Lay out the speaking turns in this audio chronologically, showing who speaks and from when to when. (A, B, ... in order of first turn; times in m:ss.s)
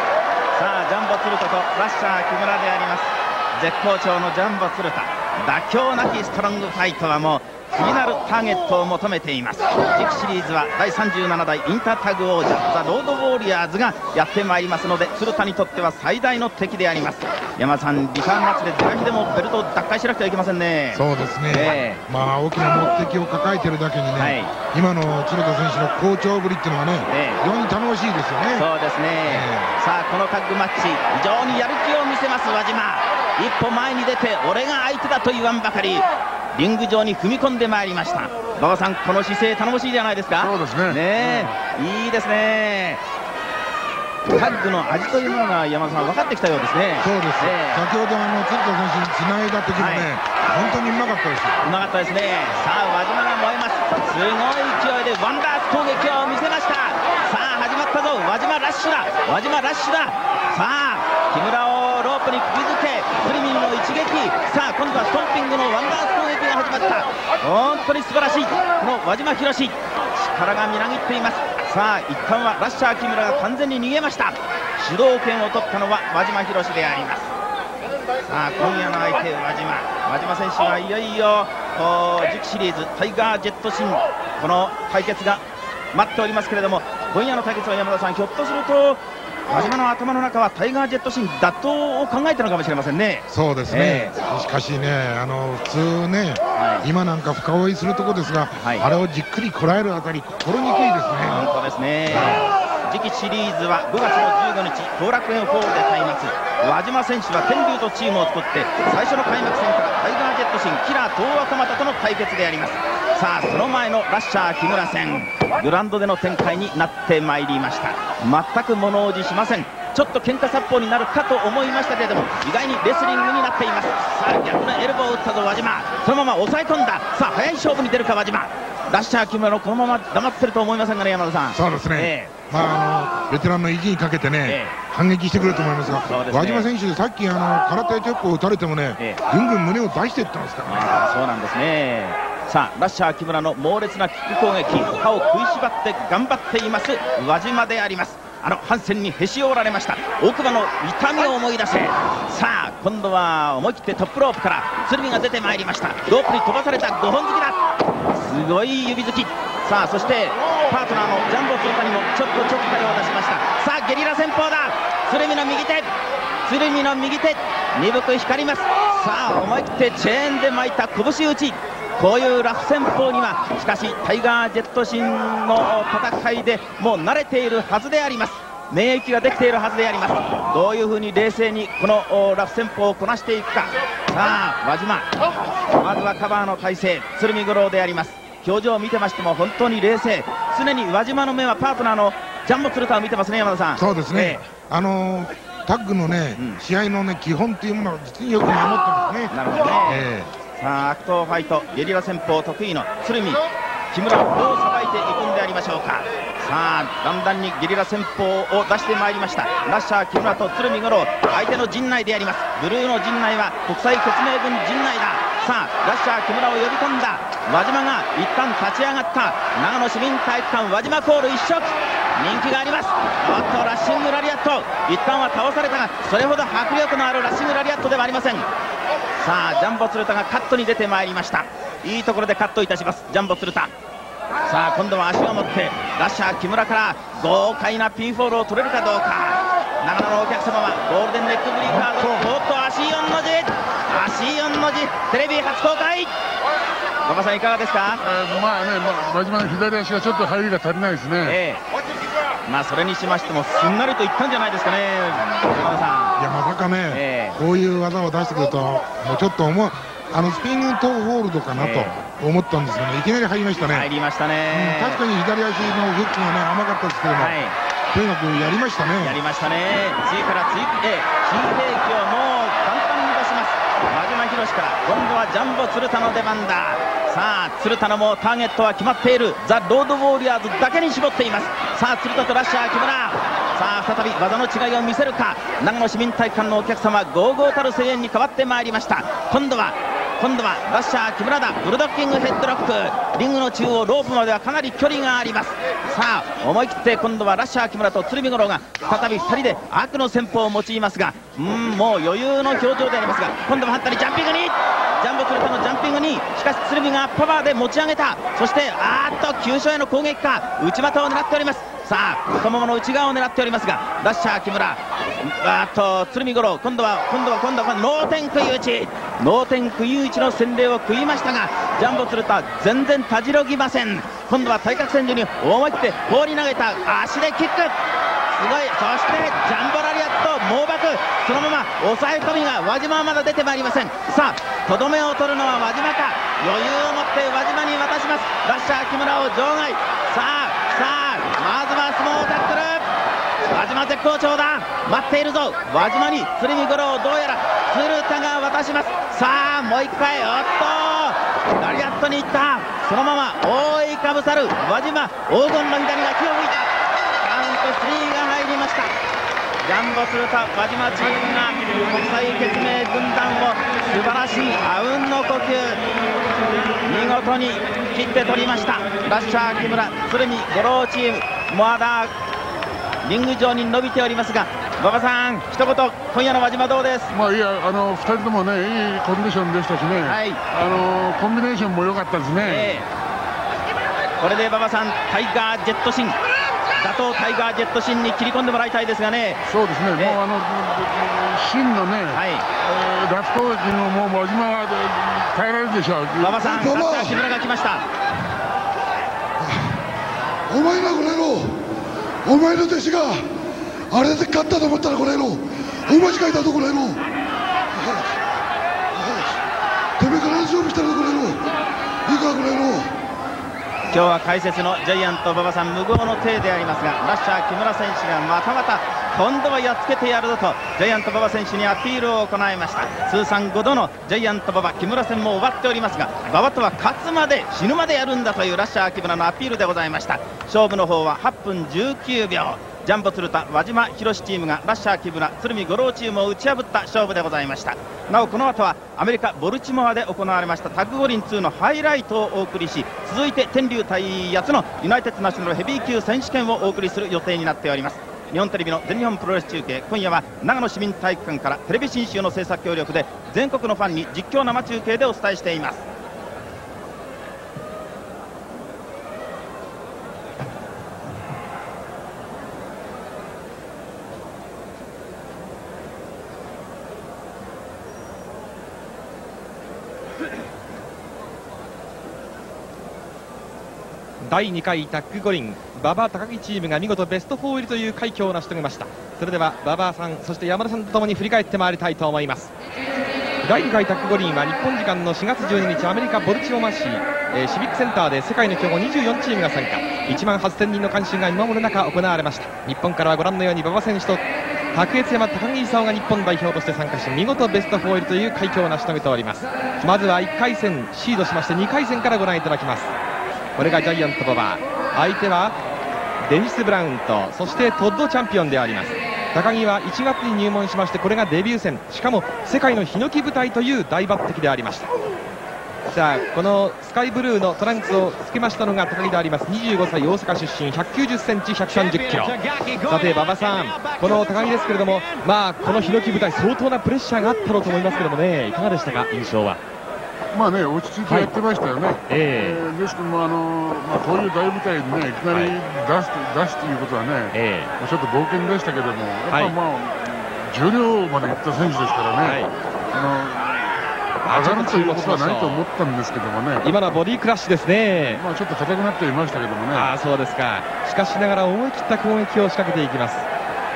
0:00.6-0:22.0 A
0:20.9-0:28.7 B
0:24.2-0:24.5 A
0:27.1-0:27.4 A
0:28.6-0:43.0 A
0:29.2-0:29.7 B
0:40.4-0:41.5 C
0:44.3-0:47.8 A
0:47.0-0:51.6 B
0:49.8-0:50.1 A
0:51.6-1:17.3 A
1:18.3-1:25.4 A
1:25.9-1:34.2 A
1:33.3-1:41.5 B
1:36.6-1:36.9 A
1:38.6-1:38.9 A
1:41.3-2:12.3 A
1:42.1-1:42.5 B
2:11.5-2:21.0 B
2:14.5-2:14.7 A
2:16.1-2:16.7 A
2:20.7-2:37.6 A
2:38.1-2:45.9 A
2:46.5-3:05.1 A
3:05.8-3:14.4 A
3:13.8-3:20.3 B
3:19.3-3:20.1 A
3:20.6-3:23.4 A
3:23.9-3:48.5 A
3:49.2-3:53.7 A
3:54.5-4:06.1 A
4:01.6-4:02.3 B
4:07.0-4:08.0 A
4:08.0-4:11.4 C
4:11.2-4:11.6 A
4:12.5-4:16.2 A
4:16.2-4:23.9 B
4:16.9-4:17.4 A
4:21.6-4:21.9 A
4:23.7-4:25.0 A
4:24.5-4:27.4 B
4:27.2-4:27.6 A
4:27.9-4:29.2 B
4:29.0-5:27.8 A
5:28.4-5:42.9 A
5:43.5-5:58.9 A
5:59.6-6:05.8 A
6:06.8-6:12.1 A
6:13.0-6:17.1 A
6:17.1-6:22.8 C
6:20.0-6:20.4 A
6:22.4-6:22.9 A
6:24.2-6:26.2 A
6:26.8-6:29.4 A
6:29.5-6:36.7 C
6:32.1-6:32.4 A
6:36.2-6:37.8 A
6:36.5-6:37.2 D
6:39.4-6:39.7 D
6:40.5-6:41.7 D
6:42.2-6:43.3 D
6:43.9-6:47.1 D
6:47.7-6:48.1 D
6:49.0-6:49.4 D
6:50.0-6:51.5 D
6:52.1-6:53.0 D
6:53.9-7:35.8 A
7:54.2-8:02.5 E
8:03.4-8:22.9 E
8:23.6-8:25.6 E
8:26.2-8:34.9 E
8:35.9-8:49.6 E
8:50.3-9:02.4 C
8:51.1-8:51.3 E
8:52.1-8:52.6 E
8:57.3-8:57.7 E
8:59.3-8:59.5 E
9:02.2-9:02.5 E
9:02.9-9:03.6 C
9:04.2-9:05.6 E
9:04.3-9:06.7 C
9:06.6-9:08.2 E
9:08.0-9:09.9 C
9:09.7-9:13.3 E